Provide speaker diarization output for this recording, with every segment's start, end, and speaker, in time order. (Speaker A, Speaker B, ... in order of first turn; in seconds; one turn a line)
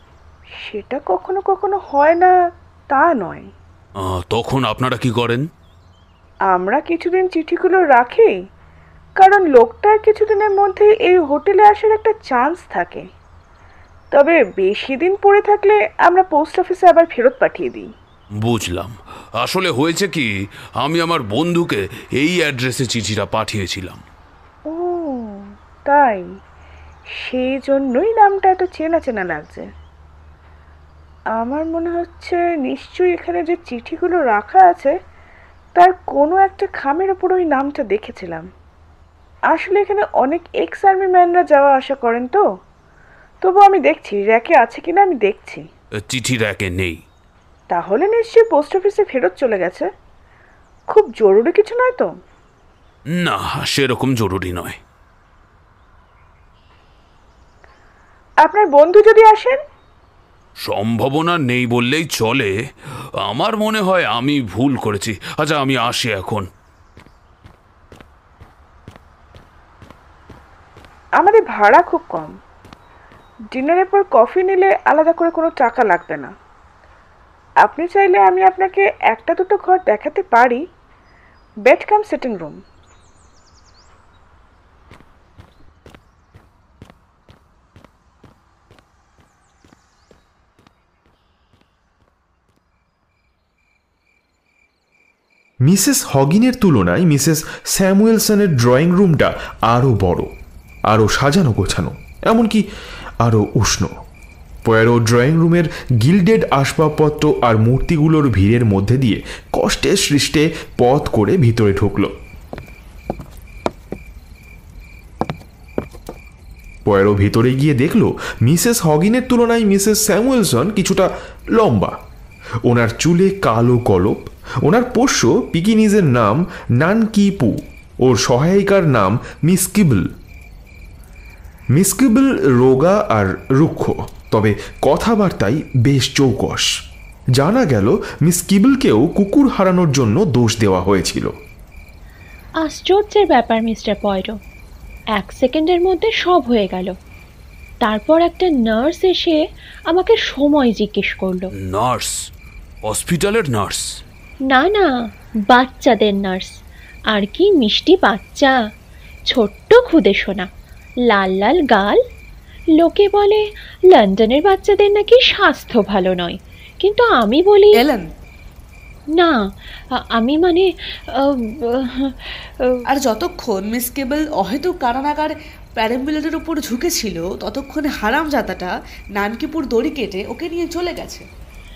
Speaker A: 0.6-2.3
Speaker A: 2.9-3.5
Speaker B: 4.0-5.5
Speaker A: 6.5-8.4
Speaker A: 9.2-13.1
Speaker A: 14.1-17.9
Speaker B: 18.4-24.0
Speaker A: 24.7-26.4
Speaker A: 27.1-29.7
Speaker A: 31.4-34.9
Speaker A: 35.8-38.5
Speaker A: 39.5-42.4
Speaker A: 43.4-45.6
Speaker B: 46.0-47.0
Speaker A: 47.7-49.9
Speaker A: 50.9-52.1
Speaker B: 53.1-54.8
Speaker A: 58.4-59.6
Speaker B: 60.6-62.5
Speaker B: 63.2-66.5
Speaker A: 71.2-72.4
Speaker A: 73.5-76.3
Speaker A: 77.6-80.6
Speaker A: 81.7-82.6
Speaker C: 95.6-100.3
Speaker C: 100.9-102.6
Speaker C: 103.2-103.9
Speaker C: 104.7-112.1
Speaker C: 116.8-122.0
Speaker C: 122.7-130.1
Speaker C: 131.7-136.7
Speaker C: 137.3-141.3
Speaker D: 142.6-144.4
Speaker D: 145.2-146.9
Speaker D: 147.8-151.5
Speaker B: 151.6-152.2
Speaker B: 152.8-154.0
Speaker D: 154.5-154.9
Speaker D: 155.5-156.6
Speaker D: 157.1-158.6
Speaker D: 159.3-160.5
Speaker D: 161.1-162.0
Speaker D: 162.8-167.8
Speaker E: 167.7-168.1
Speaker D: 170.0-172.8
Speaker E: 172.9-181.2